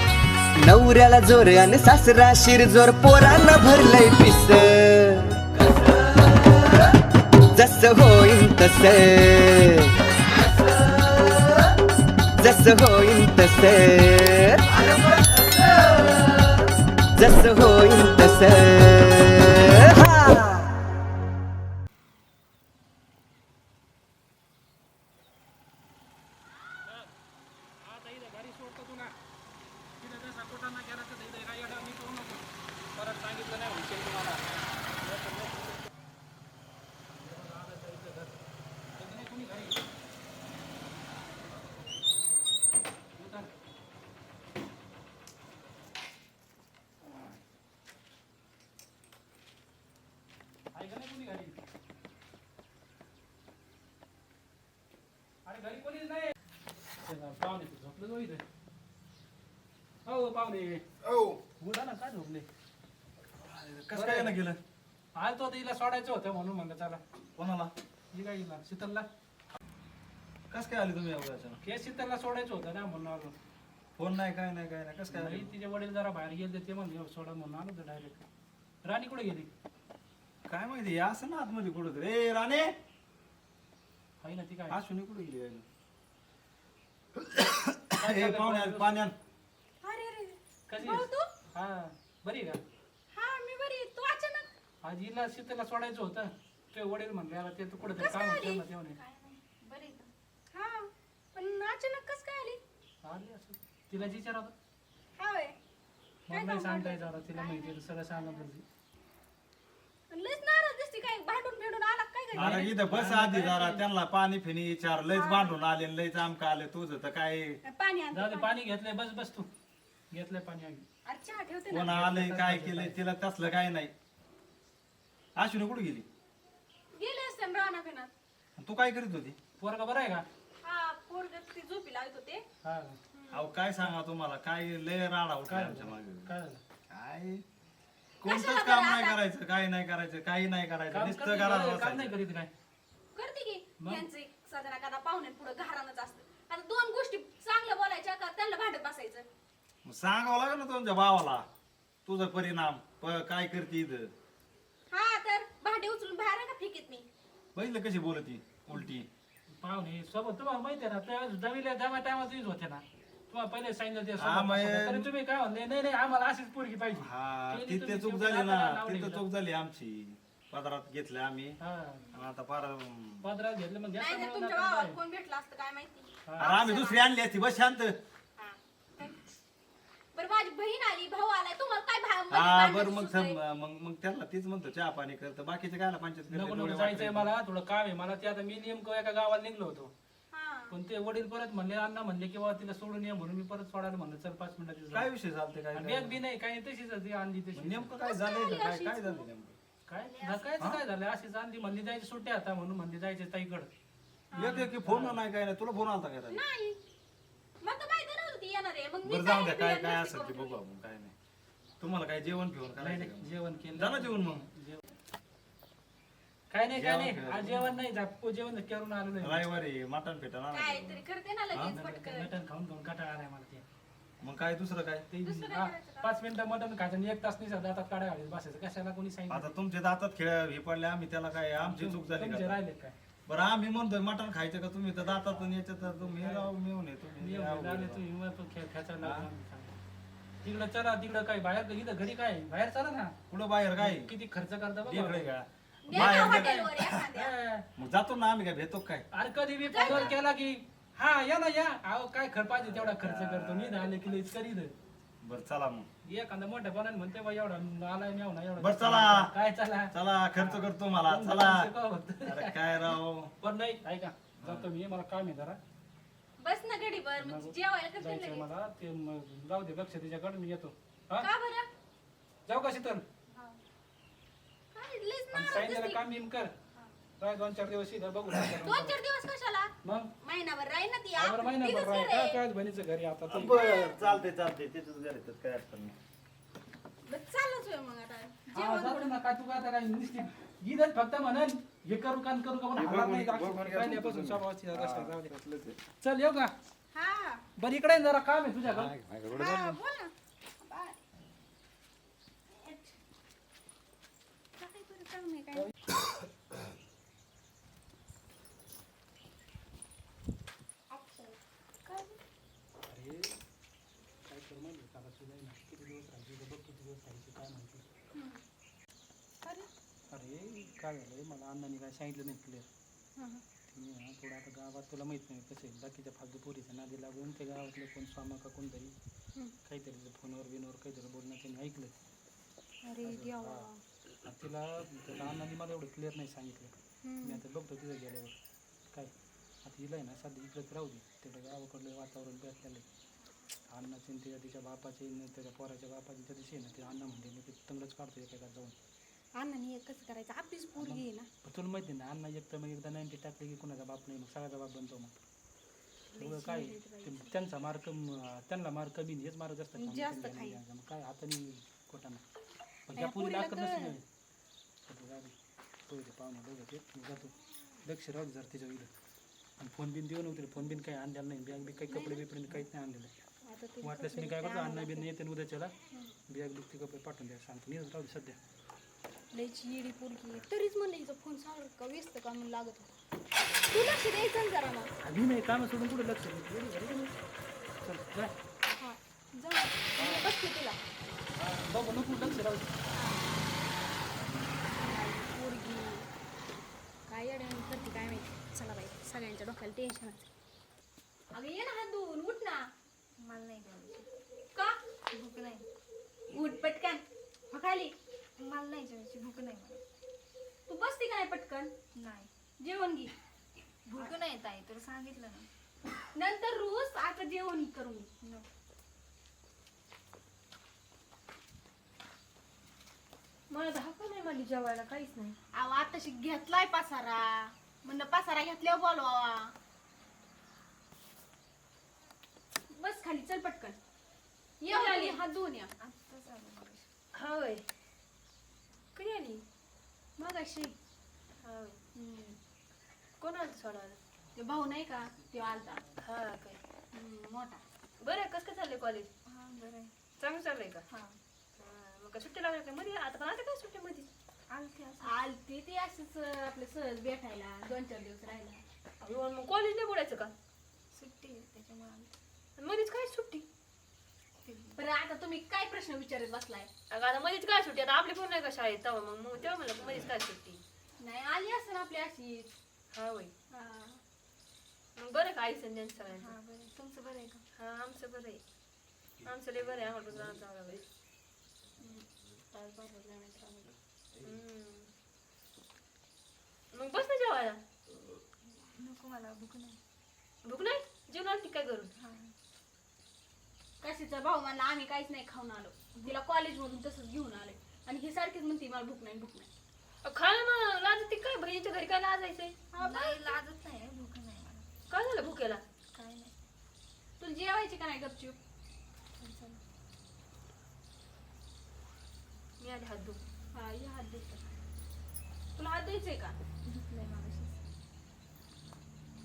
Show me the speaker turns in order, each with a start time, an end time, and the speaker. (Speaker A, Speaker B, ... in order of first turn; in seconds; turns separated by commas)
Speaker A: 0.6-5.6, Speaker A: 7.5-9.9, Speaker A: 12.4-15.4, Speaker A: 17.1-20.7, Speaker B: 27.8-29.1, Speaker B: 30.0-34.5, Speaker B: 35.0-35.9, Speaker B: 37.1-38.3, Speaker B: 39.0-39.8, Speaker B: 43.1-43.5, Speaker B: 50.7-51.6, Speaker B: 55.4-56.3, Speaker B: 57.0-58.4, Speaker B: 60.0-60.8, Speaker C: 61.0-61.4, Speaker B: 61.6-62.5, Speaker C: 63.4-64.6, Speaker B: 63.9-64.4, Speaker B: 65.1-67.0, Speaker C: 67.3-67.7, Speaker B: 68.1-69.1, Speaker C: 70.5-71.6, Speaker B: 71.6-73.3, Speaker C: 74.0-75.5, Speaker B: 75.1-78.2, Speaker B: 78.8-79.5, Speaker C: 80.5-82.7, Speaker B: 84.2-84.8, Speaker C: 84.7-85.7, Speaker C: 87.2-89.1, Speaker B: 88.0-89.0, Speaker D: 89.8-91.3, Speaker B: 90.7-92.6, Speaker D: 93.1-94.5, Speaker B: 94.8-99.0, Speaker D: 97.9-98.6, Speaker E: 98.9-99.4, Speaker D: 99.6-102.6, Speaker B: 103.0-104.5, Speaker D: 105.2-105.5, Speaker B: 106.3-108.6, Speaker D: 106.3-108.5, Speaker D: 110.1-112.6, Speaker B: 112.3-113.8, Speaker C: 112.3-117.6, Speaker D: 115.1-115.6, Speaker D: 117.6-118.5, Speaker B: 118.1-119.5, Speaker B: 120.1-120.8, Speaker D: 121.0-121.9, Speaker C: 121.7-123.9, Speaker B: 121.8-123.0, Speaker C: 125.3-126.1, Speaker D: 126.9-128.1, Speaker C: 128.6-129.4, Speaker B: 129.6-130.2, Speaker D: 130.6-132.4, Speaker B: 132.6-133.0, Speaker D: 133.1-133.5, Speaker C: 133.3-136.3, Speaker B: 135.5-136.6, Speaker C: 136.9-137.4, Speaker C: 138.2-142.1, Speaker D: 138.2-139.2, Speaker B: 140.9-142.5, Speaker D: 143.1-149.3, Speaker B: 143.8-144.1, Speaker C: 149.8-151.4, Speaker C: 152.0-154.1, Speaker D: 154.9-157.1, Speaker C: 157.5-159.1, Speaker B: 159.6-169.2, Speaker C: 164.2-165.1, Speaker C: 167.0-171.6, Speaker B: 171.6-172.1, Speaker C: 172.1-173.2, Speaker B: 173.2-175.0, Speaker D: 173.9-177.0, Speaker B: 176.2-176.5, Speaker C: 176.4-178.0, Speaker D: 178.4-179.2, Speaker D: 180.1-183.4, Speaker C: 182.3-187.3, Speaker B: 186.3-189.9, Speaker D: 190.3-190.7, Speaker B: 190.7-195.1, Speaker C: 194.9-196.2, Speaker B: 195.7-197.9, Speaker C: 197.5-199.6, Speaker D: 198.0-199.3, Speaker B: 199.9-203.7, Speaker D: 200.0-200.6, Speaker D: 204.3-204.7, Speaker C: 204.3-206.4, Speaker B: 204.4-205.2, Speaker D: 206.3-206.8, Speaker D: 207.6-210.6, Speaker C: 209.1-211.1, Speaker C: 211.8-214.4, Speaker B: 212.8-214.9, Speaker B: 216.5-219.4, Speaker C: 216.7-217.8, Speaker C: 219.2-221.8, Speaker D: 220.5-222.3, Speaker B: 221.6-223.6, Speaker C: 224.2-225.1, Speaker B: 225.1-229.5, Speaker D: 225.2-226.1, Speaker C: 229.3-232.6, Speaker B: 231.6-232.9, Speaker C: 233.2-238.0, Speaker B: 235.8-236.5, Speaker B: 237.2-239.8, Speaker C: 239.0-239.3, Speaker B: 240.4-243.2, Speaker C: 243.3-244.1, Speaker B: 243.8-245.3, Speaker C: 244.8-245.5, Speaker D: 245.8-247.3, Speaker B: 245.9-247.7, Speaker C: 246.0-247.0, Speaker C: 247.8-249.0, Speaker B: 249.1-254.7, Speaker D: 249.7-250.1, Speaker C: 252.6-253.9, Speaker C: 255.2-255.9, Speaker B: 256.0-262.6, Speaker C: 258.6-259.3, Speaker C: 259.9-261.7, Speaker C: 262.2-263.3, Speaker B: 263.4-265.6, Speaker C: 264.4-264.6, Speaker D: 266.4-268.5, Speaker B: 267.2-271.3, Speaker D: 271.2-271.7, Speaker B: 272.5-273.0, Speaker D: 274.7-276.0, Speaker B: 275.3-276.5, Speaker B: 277.2-278.9, Speaker D: 278.6-282.4, Speaker B: 279.8-280.1, Speaker B: 281.2-283.6, Speaker C: 283.3-286.0, Speaker D: 283.5-284.3, Speaker D: 287.1-289.1, Speaker B: 288.5-295.3, Speaker C: 292.8-295.8, Speaker B: 296.0-296.5, Speaker D: 296.9-297.4, Speaker B: 297.6-298.9, Speaker C: 298.7-299.8, Speaker D: 299.3-301.0, Speaker D: 302.5-302.9, Speaker D: 304.6-305.7, Speaker D: 310.9-312.2, Speaker B: 312.9-313.4, Speaker B: 314.2-317.8, Speaker D: 318.1-318.4, Speaker D: 319.4-319.7, Speaker B: 320.1-322.7, Speaker D: 323.1-323.4, Speaker B: 323.7-328.9, Speaker B: 329.6-331.9, Speaker E: 332.8-333.8, Speaker B: 333.0-333.7, Speaker B: 334.2-338.4, Speaker D: 337.0-337.4, Speaker B: 339.6-342.9, Speaker B: 343.7-348.8, Speaker D: 349.4-351.3, Speaker B: 350.8-355.1, Speaker D: 356.1-357.3, Speaker B: 356.2-362.2, Speaker D: 359.7-360.6, Speaker B: 362.9-364.0, Speaker D: 362.9-363.9, Speaker B: 364.9-365.3, Speaker B: 365.9-368.9, Speaker B: 369.6-373.1, Speaker D: 371.9-372.6, Speaker D: 373.4-375.0, Speaker B: 373.8-375.7, Speaker D: 375.9-376.1, Speaker B: 376.3-378.4, Speaker D: 379.3-382.9, Speaker D: 383.7-384.9, Speaker B: 385.0-387.2, Speaker B: 387.8-388.3, Speaker D: 388.8-390.8, Speaker B: 390.0-390.3, Speaker B: 391.4-392.7, Speaker D: 392.9-393.3, Speaker D: 394.8-396.1, Speaker D: 397.1-400.2, Speaker D: 401.3-402.7, Speaker E: 403.2-404.1, Speaker E: 405.1-405.6, Speaker D: 406.3-407.9, Speaker E: 408.4-409.8, Speaker D: 410.7-411.7, Speaker E: 412.0-412.3, Speaker D: 412.6-413.1, Speaker E: 413.9-415.5, Speaker D: 416.1-418.1, Speaker E: 418.2-418.5, Speaker F: 423.5-425.4, Speaker D: 425.5-429.5, Speaker D: 432.7-433.8, Speaker D: 434.6-435.7, Speaker F: 434.7-435.2, Speaker E: 435.8-436.9, Speaker F: 437.1-437.6, Speaker F: 438.9-439.4, Speaker D: 440.2-440.7, Speaker F: 441.4-441.8, Speaker D: 441.9-442.4, Speaker F: 443.2-444.0, Speaker D: 444.4-445.8, Speaker F: 446.0-446.6, Speaker D: 446.9-447.6, Speaker F: 448.0-449.1, Speaker E: 449.3-449.9, Speaker F: 450.2-450.8, Speaker E: 450.9-451.2, Speaker F: 451.6-454.1, Speaker E: 454.5-455.2, Speaker D: 455.0-458.6, Speaker F: 459.0-460.3, Speaker E: 460.9-462.1, Speaker F: 462.6-463.4, Speaker E: 464.4-464.8, Speaker D: 464.8-466.7, Speaker F: 466.9-470.6, Speaker D: 471.0-472.5, Speaker F: 472.9-473.3, Speaker D: 473.5-474.0, Speaker F: 474.9-476.3, Speaker E: 476.1-477.4, Speaker F: 477.5-478.4, Speaker F: 479.2-480.8, Speaker D: 481.8-483.7, Speaker F: 484.2-484.9, Speaker F: 486.7-487.6, Speaker E: 488.7-489.8, Speaker F: 490.4-491.9, Speaker E: 491.9-492.3, Speaker D: 493.8-499.5, Speaker F: 500.0-502.5, Speaker D: 502.7-503.4, Speaker E: 502.8-504.6, Speaker F: 504.9-505.6, Speaker E: 505.9-506.3, Speaker D: 507.2-508.4, Speaker E: 509.2-509.6, Speaker F: 512.6-513.2, Speaker D: 513.5-514.4, Speaker D: 515.5-516.4, Speaker E: 516.6-517.5